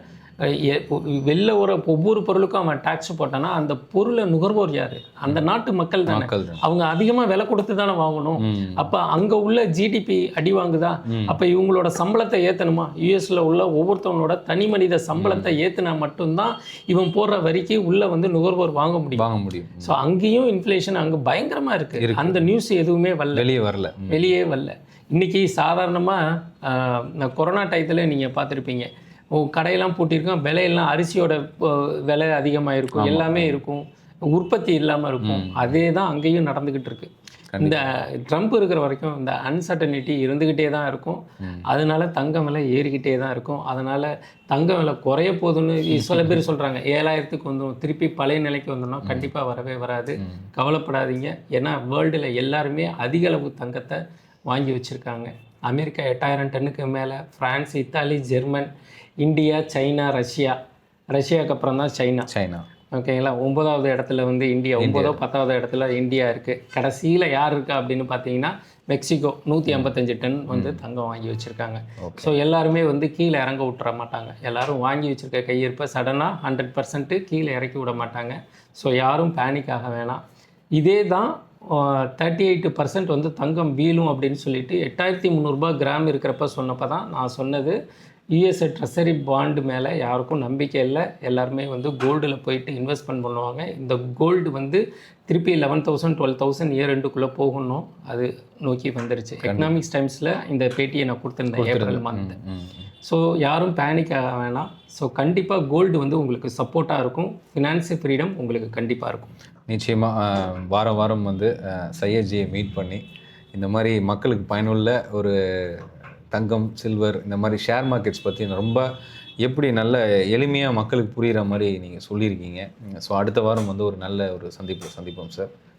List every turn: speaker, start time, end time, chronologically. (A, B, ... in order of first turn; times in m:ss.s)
0:00.4-0:19.3 A
0:06.1-0:06.6 B
0:08.4-0:08.9 B
0:11.1-0:11.4 B
0:15.2-0:15.6 B
0:19.2-0:20.0 B
0:19.8-0:23.5 A
0:22.0-0:22.5 B
0:23.3-0:24.3 B
0:24.1-0:58.7 A
0:32.9-0:33.6 B
0:35.2-0:35.8 B
0:37.5-0:37.8 B
0:46.0-0:46.4 B
0:49.0-0:49.3 B
0:50.2-0:50.5 B
0:59.2-1:00.6 A
1:01.1-1:02.3 A
1:02.3-1:02.7 B
1:02.9-1:20.2 A
1:04.8-1:05.2 B
1:09.7-1:09.9 B
1:10.5-1:10.8 B
1:12.0-1:12.3 B
1:20.8-1:27.8 A
1:28.3-1:42.4 A
1:39.4-1:39.8 B
1:41.6-1:42.9 B
1:43.0-1:49.3 A
1:49.7-1:53.0 B
1:53.5-1:58.9 B
1:59.4-2:05.5 B